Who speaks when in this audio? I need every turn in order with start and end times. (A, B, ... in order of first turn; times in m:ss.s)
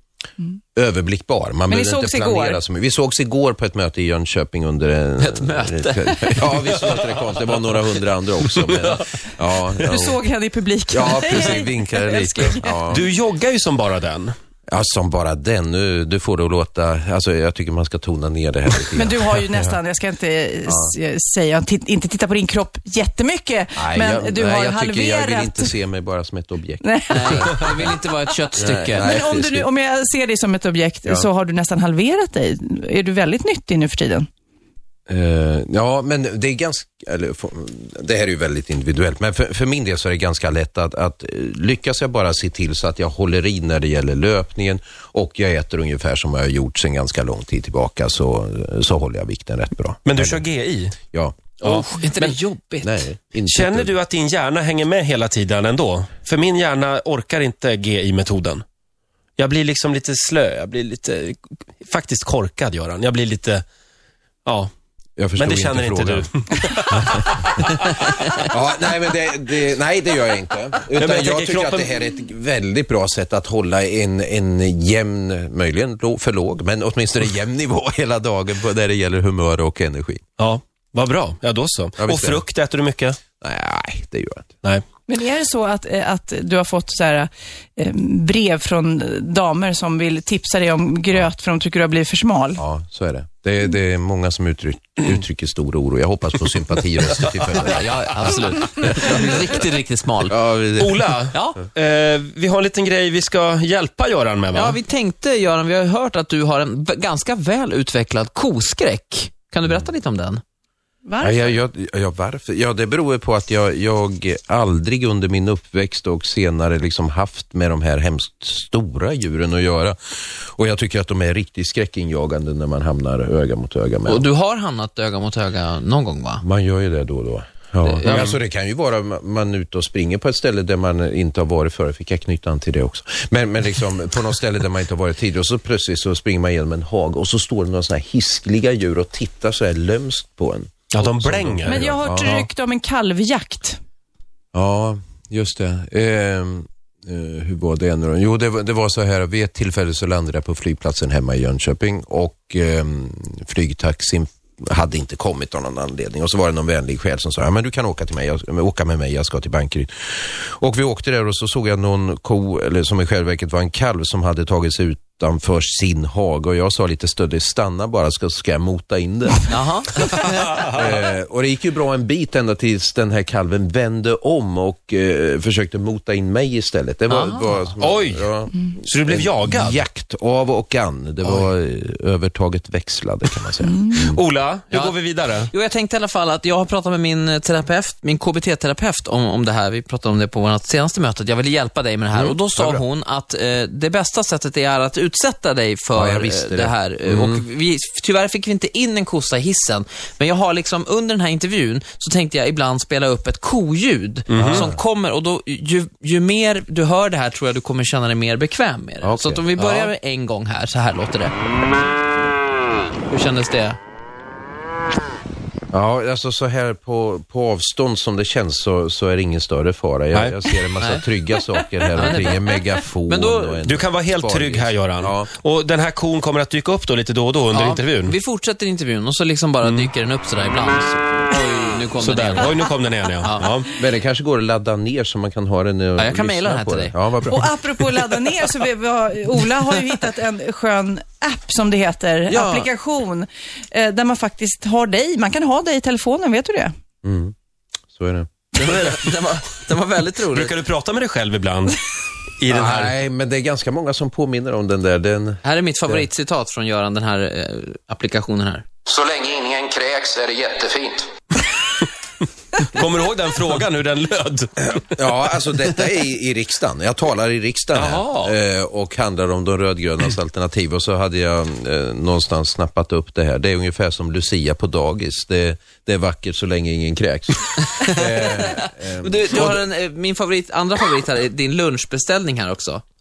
0:00.8-0:10.2 A
0:01.7-0:02.6 B
0:05.2-0:07.0 C
0:09.8-0:12.8 B
0:10.9-0:13.1 A
0:12.9-0:14.3 D
0:14.7-0:19.7 A
0:19.0-0:25.7 B
0:20.7-0:20.9 A
0:23.8-0:27.9 A
0:26.8-0:28.0 B
0:27.1-0:29.1 C
0:28.6-0:29.7 A
0:29.0-0:34.3 B
0:35.1-0:50.4 A
0:50.1-0:51.0 D
0:51.1-0:51.6 A
0:51.6-0:52.4 D
0:51.6-0:53.0 C
0:52.8-0:53.9 A
0:53.5-0:58.6 D
0:59.4-1:03.6 D
1:04.4-1:04.7 D
1:05.2-1:06.3 A
1:05.4-1:08.4 D
1:08.4-1:20.2 A
1:11.0-1:11.9 D
1:20.4-1:23.2 D
1:22.0-1:22.4 A
1:23.4-1:24.5 A
1:25.1-1:32.6 B
1:32.6-1:38.3 A
1:37.6-1:40.4 C
1:40.3-1:41.1 A
1:40.8-1:44.8 D
1:41.3-1:41.6 C
1:44.5-1:50.4 C
1:51.0-1:51.6 B
1:51.2-2:04.2 A
2:04.1-2:06.4 C
2:06.4-2:22.5 A
2:07.8-2:08.3 C
2:08.0-2:08.4 D
2:20.9-2:22.0 D
2:21.6-2:23.8 B
2:24.5-2:49.5 A
2:49.5-2:50.4 C
2:50.6-3:04.2 A
2:57.1-2:57.7 C
2:57.8-2:59.8 D
3:04.1-3:05.5 D
3:04.7-3:31.3 C
3:12.1-3:12.8 A
3:16.0-3:17.4 A
3:24.3-3:24.7 D
3:24.4-3:24.8 A
3:29.0-3:29.5 A
3:29.6-3:29.9 D
3:33.1-3:33.8 C
3:35.7-3:45.3 A
3:40.1-3:40.6 D
3:40.8-3:41.1 C
3:42.0-3:42.4 C
3:43.1-3:43.6 C
3:43.6-3:48.1 D
3:47.5-3:52.6 C
3:49.6-3:49.9 D
3:52.0-3:53.7 D
3:53.8-3:57.9 A
3:56.0-3:56.9 C
3:57.2-4:06.7 B
4:02.3-4:02.7 C
4:07.0-4:07.3 A
4:07.9-4:08.3 A
4:08.6-4:10.6 C
4:10.3-4:11.8 D
4:12.4-4:13.0 D
4:12.5-4:16.1 A
4:15.4-4:18.7 C
4:18.9-4:21.1 E
4:22.6-4:24.8 D
4:24.6-4:39.6 A
4:27.8-4:28.3 D
4:37.8-4:42.8 C